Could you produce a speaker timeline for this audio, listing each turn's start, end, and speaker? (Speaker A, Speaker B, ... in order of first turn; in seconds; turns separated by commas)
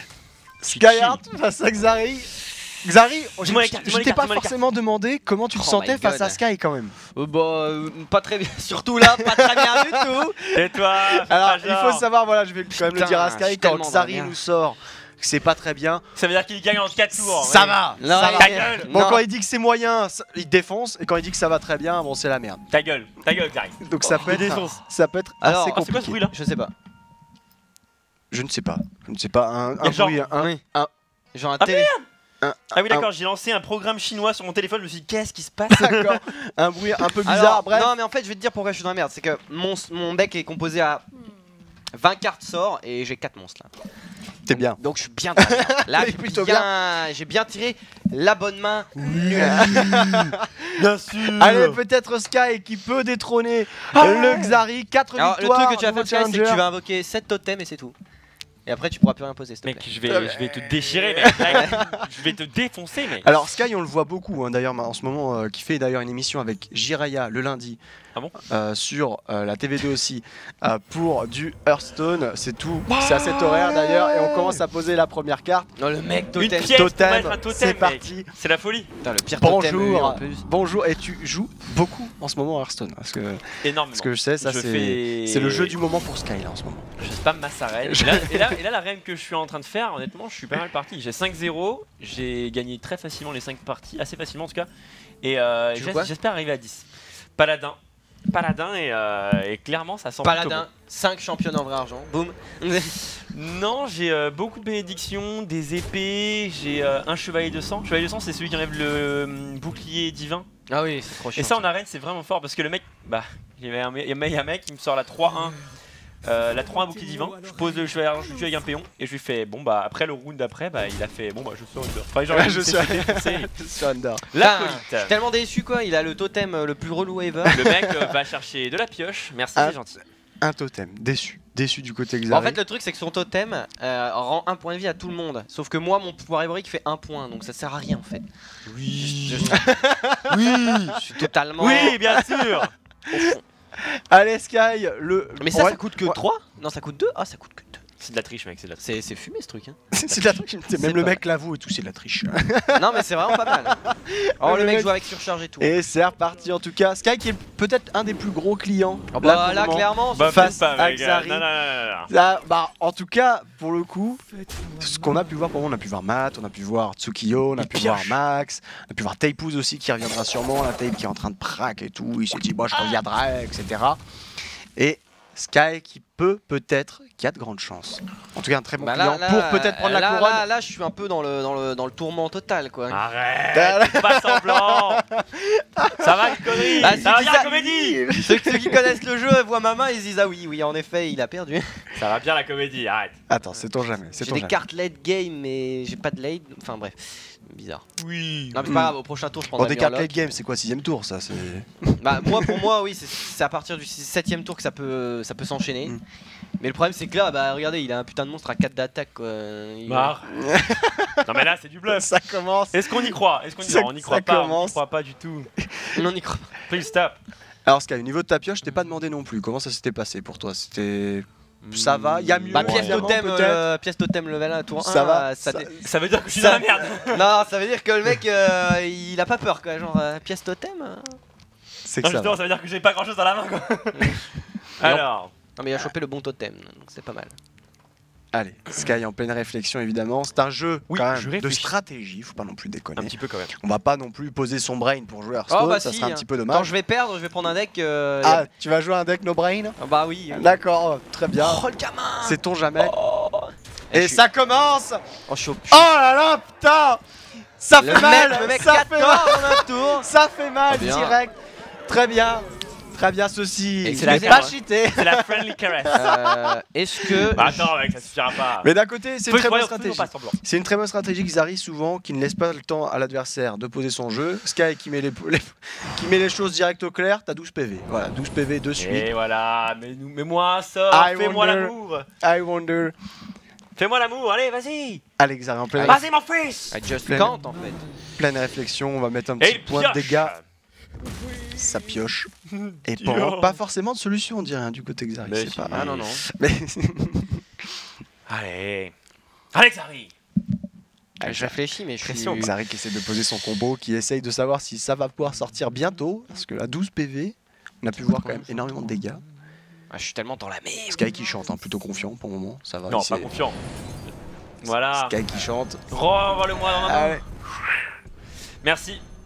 Speaker A: 0.6-6.9, Speaker B: 0.7-1.2, Speaker B: 3.4-4.5, Speaker C: 5.5-6.4, Speaker C: 7.1-10.4, Speaker A: 9.0-16.0, Speaker B: 10.5-12.0, Speaker C: 12.8-14.4, Speaker B: 16.1-18.9, Speaker A: 17.2-22.6, Speaker C: 18.0-19.2, Speaker B: 22.7-24.8, Speaker A: 23.8-26.2, Speaker C: 25.4-26.7, Speaker B: 25.6-26.3, Speaker A: 28.3-30.9, Speaker B: 29.8-30.4, Speaker C: 31.3-31.9, Speaker B: 31.6-32.0, Speaker A: 32.4-33.1, Speaker B: 32.7-36.2, Speaker A: 35.7-37.9, Speaker C: 37.2-41.0, Speaker C: 41.9-43.7, Speaker A: 44.5-44.8, Speaker C: 44.5-49.7, Speaker A: 45.4-46.7, Speaker B: 49.0-51.8, Speaker A: 49.3-56.6, Speaker B: 53.9-54.6, Speaker C: 55.1-57.9, Speaker C: 58.6-59.9, Speaker B: 59.6-63.3, Speaker A: 60.1-62.0, Speaker C: 61.5-61.7, Speaker A: 63.2-67.8, Speaker A: 68.4-75.7, Speaker B: 72.9-74.6, Speaker C: 75.8-76.8, Speaker B: 76.4-78.9, Speaker A: 76.7-78.3, Speaker C: 79.0-80.5, Speaker A: 79.4-86.9, Speaker B: 83.6-85.8, Speaker B: 87.0-94.7, Speaker A: 87.8-88.6, Speaker B: 95.2-96.8, Speaker C: 95.7-96.1, Speaker B: 97.4-97.8, Speaker B: 98.3-100.7, Speaker C: 100.2-103.0, Speaker B: 103.1-110.5, Speaker C: 110.7-111.7, Speaker B: 111.3-115.6, Speaker B: 116.2-123.5, Speaker A: 122.3-124.2, Speaker B: 124.3-125.1, Speaker C: 124.3-127.7, Speaker A: 127.5-128.1, Speaker B: 127.5-130.0, Speaker A: 130.4-132.6, Speaker C: 132.3-138.3, Speaker B: 138.7-139.6, Speaker C: 139.0-139.7, Speaker A: 139.5-140.8, Speaker B: 140.3-141.0, Speaker C: 140.8-142.0, Speaker B: 141.6-142.7, Speaker A: 141.6-143.2, Speaker C: 143.1-143.4, Speaker A: 143.8-146.2, Speaker C: 145.4-147.8, Speaker B: 148.0-148.8, Speaker C: 148.8-149.8, Speaker A: 149.9-155.0, Speaker C: 150.8-151.2, Speaker C: 152.7-153.8, Speaker C: 154.4-155.7, Speaker A: 155.6-161.5, Speaker C: 159.1-160.6, Speaker B: 160.1-162.1, Speaker A: 162.1-174.0, Speaker B: 167.6-168.2, Speaker A: 174.8-180.4, Speaker C: 178.8-183.0, Speaker B: 182.9-185.0, Speaker A: 183.5-188.9, Speaker B: 186.0-188.1, Speaker C: 186.8-187.6, Speaker C: 188.1-191.9, Speaker B: 191.9-193.2, Speaker A: 193.3-194.6, Speaker C: 194.2-197.8, Speaker B: 198.0-198.6, Speaker C: 198.5-200.2, Speaker A: 198.6-199.0, Speaker A: 199.5-202.6, Speaker C: 202.0-206.0, Speaker C: 206.6-210.1, Speaker B: 209.9-210.4, Speaker A: 210.4-214.8, Speaker B: 211.2-212.1, Speaker B: 212.7-215.5, Speaker A: 215.6-215.9, Speaker C: 215.9-216.5, Speaker B: 216.7-217.2, Speaker A: 217.6-223.6, Speaker B: 221.6-223.1, Speaker C: 222.5-225.7, Speaker A: 224.8-225.8, Speaker B: 225.8-227.3, Speaker C: 226.3-231.2, Speaker A: 231.8-232.4, Speaker B: 232.0-234.2, Speaker C: 233.9-234.2, Speaker B: 234.8-235.3, Speaker C: 235.6-237.3, Speaker A: 238.3-246.7, Speaker B: 240.9-241.7, Speaker B: 243.0-243.5, Speaker C: 245.5-248.5, Speaker A: 248.2-249.8, Speaker C: 249.8-250.6, Speaker A: 250.3-251.6, Speaker C: 251.3-254.2, Speaker A: 252.2-252.9, Speaker A: 253.9-255.0, Speaker C: 255.3-255.9, Speaker A: 255.7-257.0, Speaker A: 257.6-261.3, Speaker C: 257.8-260.1, Speaker C: 260.7-261.2, Speaker A: 261.9-267.4, Speaker C: 263.8-264.5, Speaker B: 263.9-266.0, Speaker C: 265.9-267.7, Speaker B: 267.3-268.7, Speaker A: 268.6-279.1, Speaker B: 269.3-270.4, Speaker B: 278.8-282.1, Speaker A: 280.9-282.9, Speaker B: 283.8-285.0, Speaker A: 285.2-286.0, Speaker B: 285.8-286.7, Speaker C: 286.7-287.9, Speaker A: 287.1-287.3, Speaker A: 288.1-290.3, Speaker B: 289.4-290.4, Speaker A: 291.5-292.3, Speaker B: 292.5-293.6, Speaker A: 292.8-297.4, Speaker B: 295.2-296.1, Speaker C: 295.7-296.2, Speaker B: 298.3-298.9, Speaker B: 299.5-300.1, Speaker A: 301.2-309.2, Speaker C: 301.2-302.5, Speaker C: 309.9-311.1, Speaker A: 310.9-313.3, Speaker B: 312.9-313.6, Speaker B: 314.6-315.2, Speaker A: 314.9-315.8, Speaker B: 315.9-317.9, Speaker A: 316.8-317.2, Speaker B: 318.6-319.0